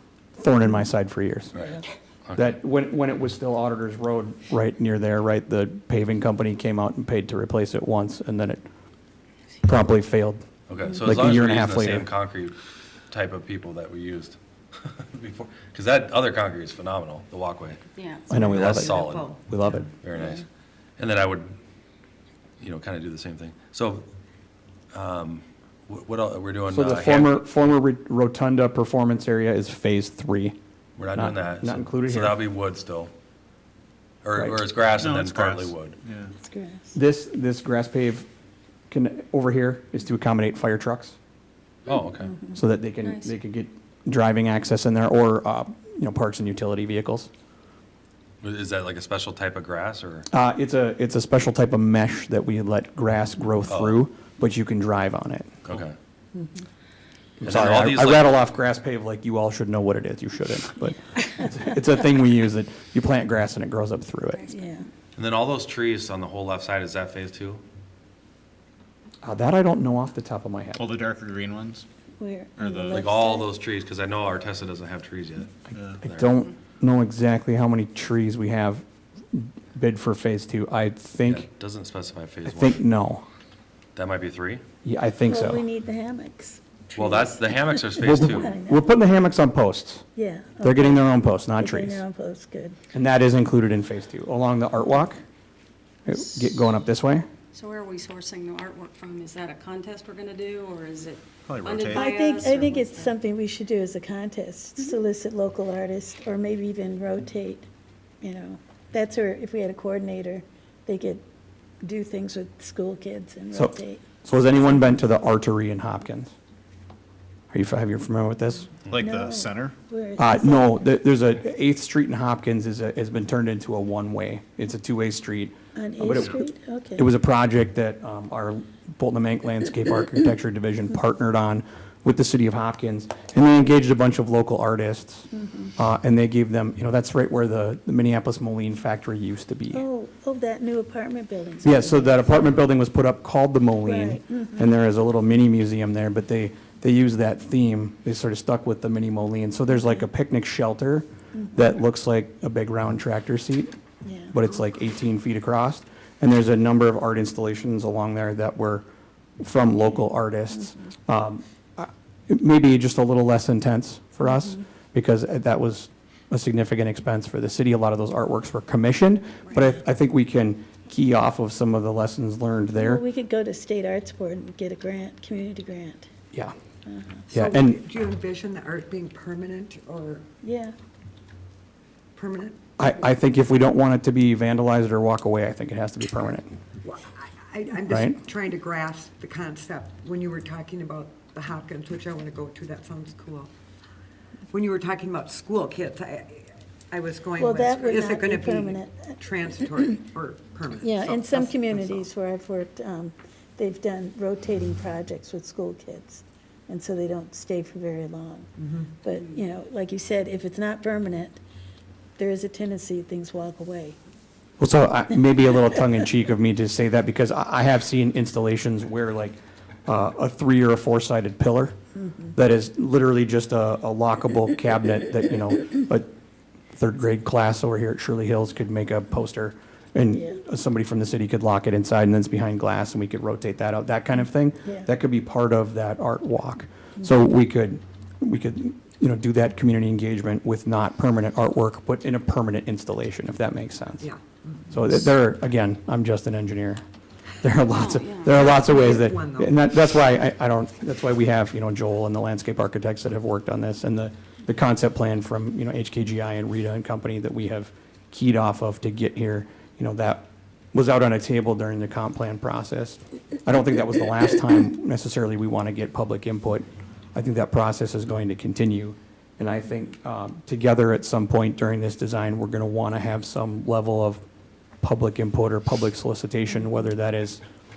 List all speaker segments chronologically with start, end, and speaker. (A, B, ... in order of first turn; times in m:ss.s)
0:00.4-0:01.5 A
0:01.5-0:02.4 B
0:02.3-0:08.6 A
0:09.6-0:10.4 A
0:10.7-0:12.6 B
0:11.0-0:12.1 A
0:13.1-0:19.4 B
0:18.0-0:18.6 C
0:18.3-0:19.9 A
0:18.7-0:19.9 D
0:20.0-0:20.4 B
0:21.0-0:21.5 B
0:22.6-0:24.0 B
0:24.9-0:27.4 B
0:26.7-0:30.6 A
0:31.0-0:33.1 B
0:31.1-0:32.4 A
0:34.2-0:36.0 B
0:35.0-0:36.3 E
0:36.4-0:37.0 F
0:36.9-0:38.3 A
0:38.9-0:41.2 A
0:41.8-0:42.3 B
0:42.2-0:42.6 F
0:42.5-0:47.3 A
0:43.0-0:43.3 C
0:48.4-0:50.2 B
0:50.3-0:55.6 A
0:53.7-0:54.0 B
0:55.6-0:55.9 B
0:57.4-1:04.5 A
0:57.4-0:58.4 B
1:04.3-1:04.6 C
1:04.5-1:04.8 F
1:05.2-1:07.6 B
1:09.2-1:10.9 A
1:10.8-1:11.8 E
1:12.2-1:13.5 F
1:12.6-1:13.0 E
1:12.9-1:16.3 B
1:15.7-1:16.0 E
1:16.0-1:21.5 A
1:21.3-1:22.8 B
1:22.4-1:23.2 A
1:24.0-1:24.6 B
1:24.8-1:25.6 A
1:25.2-1:28.8 F
1:26.9-1:28.5 B
1:28.0-1:30.0 A
1:30.1-1:32.8 F
1:30.6-1:32.0 A
1:32.9-1:35.2 A
1:36.0-1:37.3 A
1:37.5-1:43.2 C
1:41.4-1:42.1 E
1:42.0-1:47.7 F
1:48.2-1:51.2 F
1:51.8-1:54.0 F
1:53.5-1:56.3 A
1:57.5-1:58.7 A
1:58.9-1:59.8 E
1:59.0-2:00.9 F
2:00.2-2:06.4 A
2:05.7-2:07.1 F
2:06.1-2:06.4 E
2:06.9-2:19.8 A
2:15.3-2:15.7 F
2:19.7-2:22.4 F
2:21.6-2:33.7 A
2:23.8-2:24.8 F
2:34.0-2:34.4 F
2:34.3-2:38.8 A
2:39.4-2:53.0 A
2:52.8-2:56.1 F
2:56.9-2:57.2 F
2:57.3-3:00.2 D
2:57.3-2:57.8 A
3:00.4-3:00.7 F
3:02.1-3:02.6 D
3:02.8-3:06.5 A
3:06.8-3:13.5 D
3:07.9-3:08.2 A
3:14.5-3:22.1 D
3:17.4-3:19.2 F
3:20.8-3:28.5 F
3:28.6-3:28.9 D
3:29.0-3:31.4 F
3:32.2-3:34.0 F
3:34.6-3:41.8 A
3:42.3-3:46.1 A
3:46.7-4:04.1 A
3:50.1-3:50.4 F
3:54.6-3:54.9 F
4:04.0-4:04.8 D
4:04.7-4:06.8 A
4:07.4-4:34.2 A
4:07.7-4:08.4 C
4:08.3-4:09.6 D
4:34.8-4:37.4 A